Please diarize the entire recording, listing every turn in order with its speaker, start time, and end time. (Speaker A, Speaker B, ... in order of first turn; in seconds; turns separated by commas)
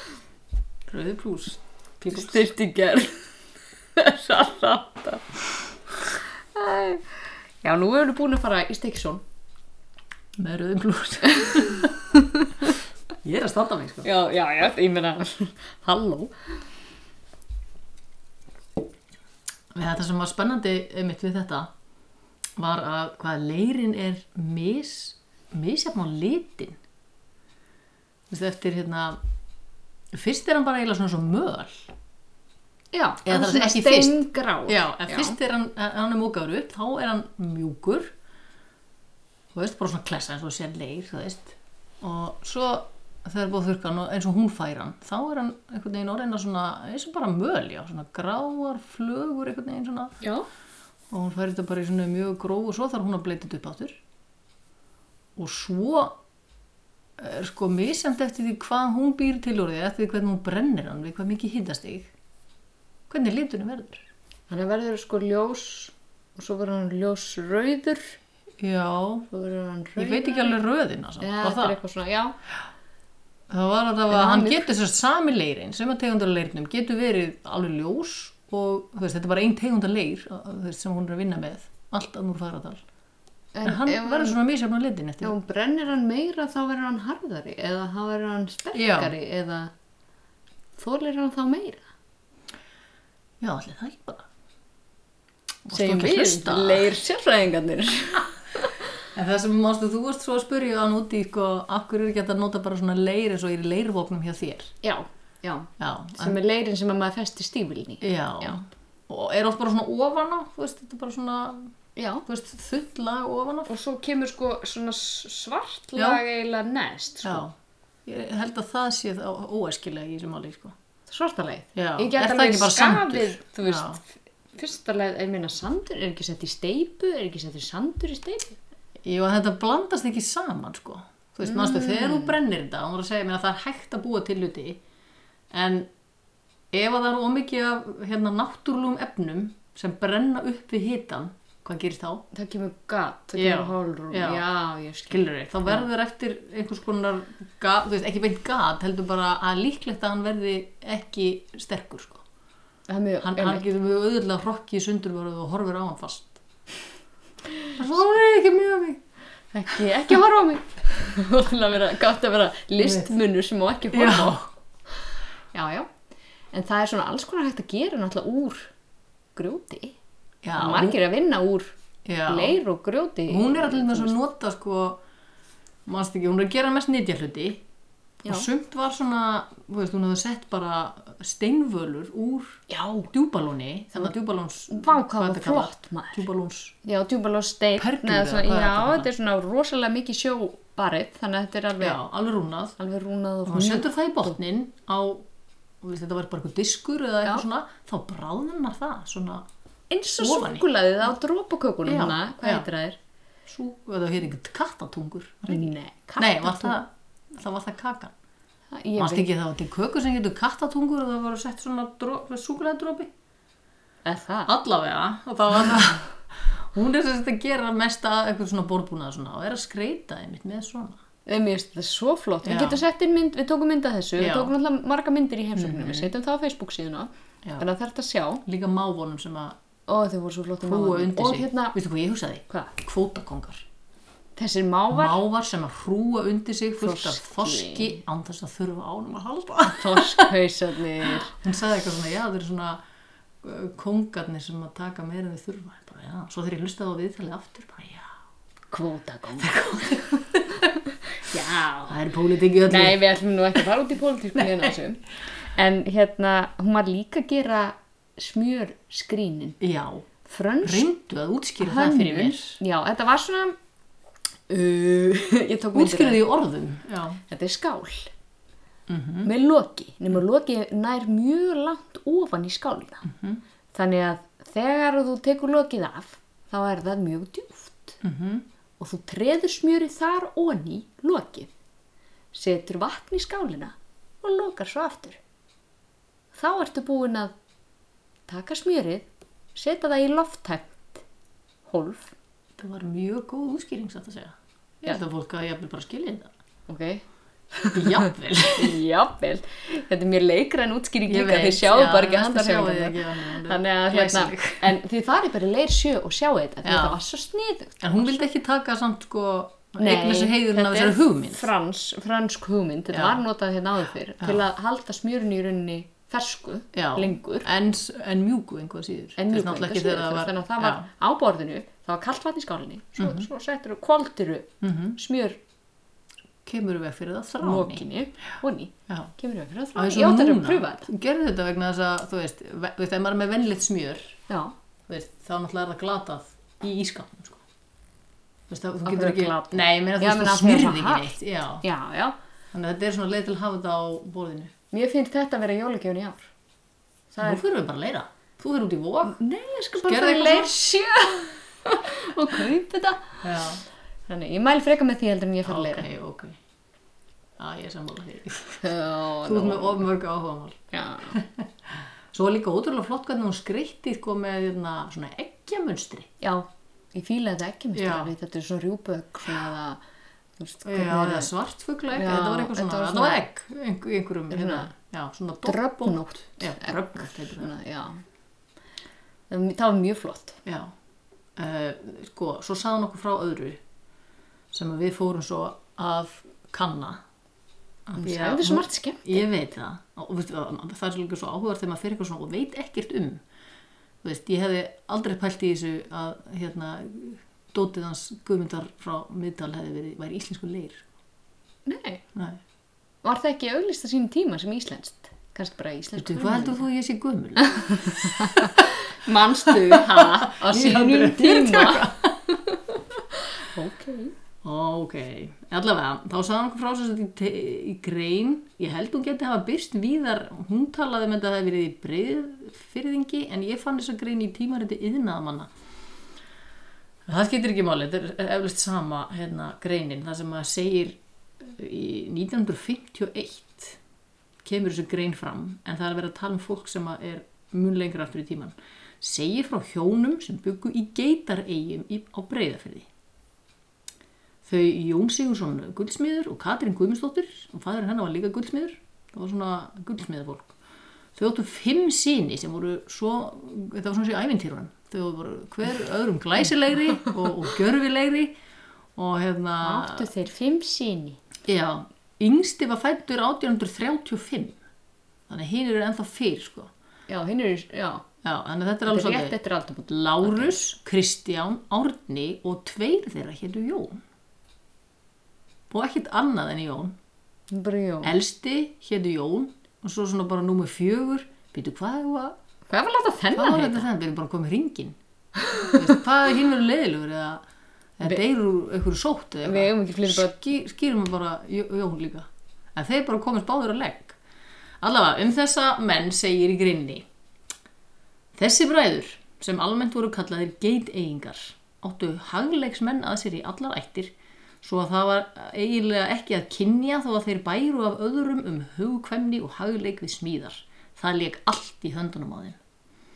Speaker A: 0.9-2.5, Speaker B: 2.0-3.2, Speaker B: 4.0-5.2, Speaker B: 6.5-9.2, Speaker A: 10.4-11.9, Speaker B: 11.3-12.7, Speaker A: 13.2-14.1, Speaker B: 14.0-16.6, Speaker A: 19.7-21.7, Speaker A: 22.6-26.8, Speaker A: 28.3-29.2, Speaker A: 30.1-31.9, Speaker B: 32.9-35.4, Speaker A: 33.2-38.1, Speaker A: 39.5-50.2, Speaker A: 51.1-54.0, Speaker A: 55.4-56.2, Speaker A: 57.2-62.1, Speaker A: 63.1-64.0, Speaker B: 64.5-68.2, Speaker A: 68.6-69.3, Speaker B: 69.3-70.6, Speaker A: 70.0-71.8, Speaker B: 71.2-72.3, Speaker A: 73.5-82.8, Speaker B: 74.1-74.7, Speaker B: 83.5-84.4, Speaker A: 83.6-85.3, Speaker B: 85.2-89.7, Speaker A: 88.7-89.1, Speaker B: 90.8-91.8, Speaker A: 93.4-94.3, Speaker A: 95.7-96.9, Speaker B: 95.7-98.8, Speaker A: 99.2-104.7, Speaker B: 104.8-108.6, Speaker A: 105.8-106.4, Speaker A: 108.0-111.7, Speaker B: 112.0-112.2, Speaker A: 112.3-113.7, Speaker B: 113.7-117.5, Speaker A: 116.0-116.2, Speaker A: 117.2-117.5, Speaker A: 118.1-120.8, Speaker B: 121.1-128.6, Speaker A: 121.8-124.0, Speaker A: 129.0-134.8, Speaker B: 131.5-132.3, Speaker A: 135.5-135.9, Speaker A: 136.7-142.2, Speaker B: 142.3-145.9, Speaker A: 143.4-144.4, Speaker A: 145.1-152.2, Speaker B: 152.9-153.7, Speaker A: 153.2-156.4, Speaker A: 157.7-159.0, Speaker B: 159.5-165.9, Speaker A: 162.8-163.1, Speaker A: 163.9-164.5, Speaker B: 166.5-168.7, Speaker B: 169.3-169.9, Speaker A: 170.4-171.0, Speaker B: 170.6-171.7, Speaker A: 172.1-172.6, Speaker B: 172.3-174.1, Speaker A: 173.3-175.0, Speaker A: 175.9-177.6, Speaker A: 178.2-186.8, Speaker B: 182.7-183.1, Speaker B: 184.7-186.3, Speaker B: 186.8-192.0, Speaker A: 187.8-189.1, Speaker A: 191.8-192.8, Speaker B: 192.8-194.4, Speaker A: 193.5-195.3, Speaker A: 195.8-199.5, Speaker B: 199.9-203.0, Speaker A: 200.2-200.7, Speaker A: 201.9-202.7, Speaker A: 203.5-208.1, Speaker B: 205.5-206.8, Speaker B: 208.7-209.3, Speaker A: 209.0-213.1, Speaker B: 214.1-214.5, Speaker A: 214.5-221.0, Speaker B: 221.3-228.4, Speaker A: 222.4-222.8, Speaker A: 224.2-224.5, Speaker A: 225.6-226.1, Speaker A: 228.5-229.6, Speaker B: 229.9-231.8, Speaker A: 230.6-233.7, Speaker B: 234.4-235.2, Speaker A: 234.9-240.3, Speaker B: 236.8-238.0, Speaker B: 239.7-241.3, Speaker A: 241.1-242.8, Speaker A: 243.4-248.1, Speaker B: 248.7-250.2, Speaker A: 249.4-250.7, Speaker B: 251.2-252.0, Speaker A: 251.9-253.0, Speaker B: 252.7-259.6, Speaker A: 254.3-254.8, Speaker A: 259.6-260.1, Speaker B: 260.2-260.9, Speaker A: 260.6-262.6, Speaker B: 261.6-263.6, Speaker B: 264.5-266.2, Speaker A: 265.7-267.2, Speaker B: 267.3-268.1, Speaker A: 268.9-269.3, Speaker B: 269.2-273.1, Speaker A: 273.1-273.4, Speaker B: 273.7-278.0, Speaker A: 278.0-278.4, Speaker B: 278.8-281.5, Speaker B: 282.3-285.2, Speaker B: 286.3-287.3, Speaker B: 288.3-291.0, Speaker B: 291.7-292.1, Speaker A: 292.6-296.3, Speaker B: 296.7-308.1, Speaker A: 297.7-298.8, Speaker A: 301.1-304.8, Speaker A: 306.6-307.0, Speaker A: 307.8-311.5, Speaker B: 309.8-317.5, Speaker A: 312.9-313.2, Speaker A: 316.7-320.9, Speaker B: 319.2-325.4, Speaker A: 323.0-323.3, Speaker A: 324.6-325.0, Speaker A: 326.5-327.9, Speaker B: 327.4-330.9, Speaker A: 329.8-334.2, Speaker B: 334.3-334.5, Speaker A: 334.9-337.4, Speaker A: 338.5-341.6, Speaker B: 338.9-342.2, Speaker A: 342.5-344.5, Speaker B: 344.7-346.3, Speaker B: 347.1-347.4, Speaker A: 347.2-349.2, Speaker B: 349.1-353.5, Speaker A: 349.8-350.5, Speaker A: 353.2-353.6, Speaker B: 354.1-355.9, Speaker A: 355.4-356.4, Speaker A: 357.4-358.7, Speaker B: 358.6-359.8, Speaker A: 359.2-366.1, Speaker B: 360.7-361.2, Speaker B: 366.2-369.8, Speaker A: 367.8-368.1, Speaker B: 370.4-371.3, Speaker A: 370.7-377.5, Speaker B: 371.9-373.2, Speaker B: 374.3-374.7, Speaker B: 375.4-378.0, Speaker B: 379.3-380.4, Speaker A: 380.5-380.7, Speaker A: 381.4-383.6, Speaker A: 384.5-387.0, Speaker A: 387.9-393.2, Speaker B: 388.0-389.3, Speaker A: 394.0-400.9, Speaker B: 401.7-402.0, Speaker A: 402.1-402.4, Speaker B: 403.0-406.6, Speaker A: 406.0-408.7, Speaker B: 407.4-414.1, Speaker A: 409.5-412.2, Speaker A: 414.4-425.5, Speaker A: 427.1-433.8, Speaker A: 434.4-442.9, Speaker A: 444.4-450.6, Speaker A: 451.1-458.4, Speaker A: 459.0-460.1, Speaker B: 459.6-461.2, Speaker A: 461.5-464.6, Speaker A: 465.3-466.7, Speaker B: 467.1-468.1, Speaker A: 468.2-469.4, Speaker B: 468.9-470.6, Speaker A: 469.9-474.0, Speaker A: 475.7-477.0, Speaker B: 477.5-478.1, Speaker A: 478.0-482.4, Speaker B: 482.7-483.9, Speaker A: 483.3-485.0, Speaker B: 485.4-485.8, Speaker A: 485.6-487.4, Speaker A: 488.0-494.2, Speaker B: 489.4-490.4, Speaker A: 494.8-497.1, Speaker A: 498.4-512.6